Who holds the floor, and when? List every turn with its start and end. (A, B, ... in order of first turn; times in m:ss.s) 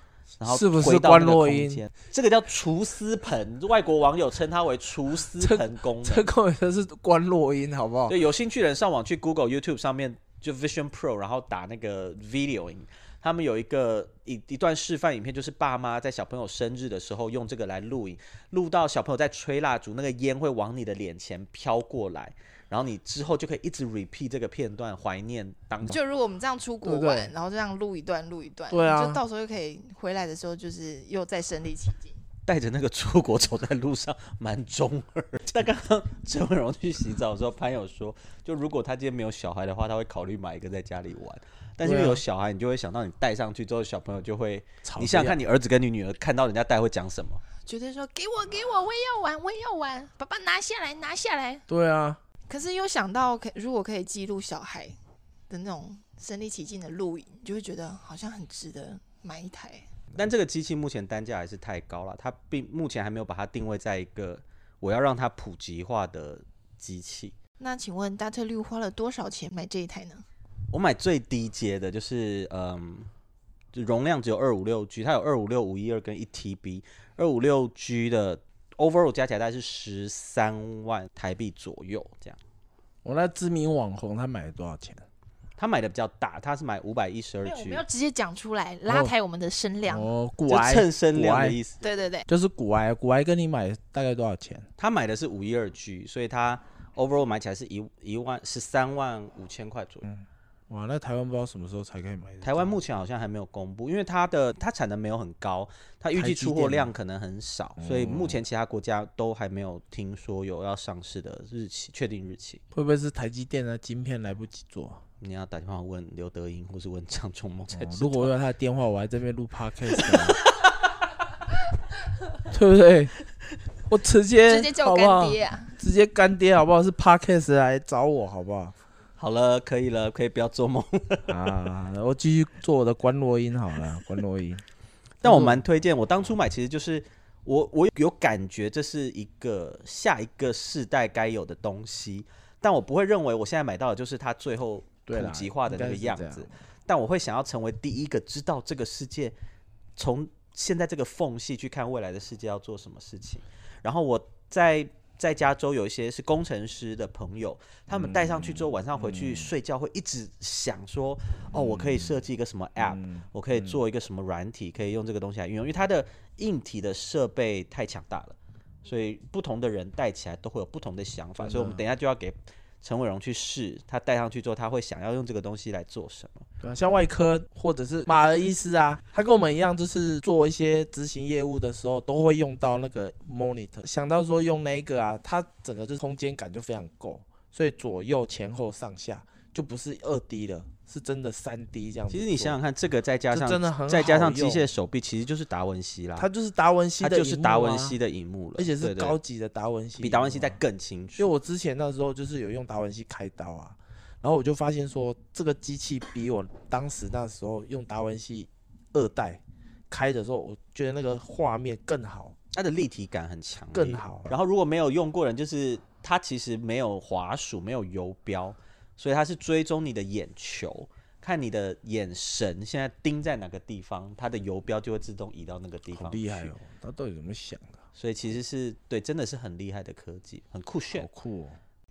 0:00.4-0:06.3 A
0:00.4-0:01.9 B
0:05.4-0:08.2 B
0:08.1-0:26.0 A
0:25.8-0:32.2 C
0:26.8-0:27.3 B
0:28.7-0:29.2 B
0:32.5-0:47.4 A
0:41.8-0:42.2 B
0:44.8-0:45.4 B
0:47.6-0:51.6 C
0:51.7-0:52.2 B
0:52.5-0:55.0 C
0:55.5-0:59.9 C
1:00.2-1:07.4 A
1:07.6-1:10.2 C
1:10.7-1:13.1 A
1:13.7-1:22.4 A
1:23.0-1:25.0 B
1:25.6-1:27.8 A
1:27.4-1:30.1 C
1:28.9-1:29.1 B
1:29.9-1:31.6 B
1:30.5-1:31.8 A
1:31.8-1:32.3 C
1:32.3-1:34.7 B
1:34.8-1:40.1 A
1:40.0-1:42.8 B
1:42.4-1:52.6 A
1:46.2-1:46.9 B
1:47.8-1:48.4 B
1:52.7-1:55.0 B
1:55.2-1:58.3 A
1:57.7-2:00.4 B
2:00.0-2:00.6 A
2:02.5-2:03.1 B
2:03.9-2:08.8 B
2:04.5-2:05.8 C
2:09.2-2:11.5 A
2:11.3-2:14.6 B
2:15.2-2:15.6 B
2:15.2-2:29.4 A
2:25.1-2:26.5 B
2:30.0-2:56.5 A
2:37.9-2:39.5 B
2:41.5-2:42.3 B
2:42.8-2:43.8 B
2:51.4-2:51.8 B
2:56.6-3:12.6 B
3:12.1-3:16.3 A
3:13.3-3:14.7 B
3:16.2-3:18.0 B
3:17.0-3:19.2 A
3:18.6-3:20.6 B
3:20.0-3:21.3 A
3:21.2-3:32.4 B
3:32.5-3:46.5 A
3:33.7-3:34.4 B
3:46.0-3:47.8 B
3:48.0-3:51.1 A
3:50.9-3:51.6 B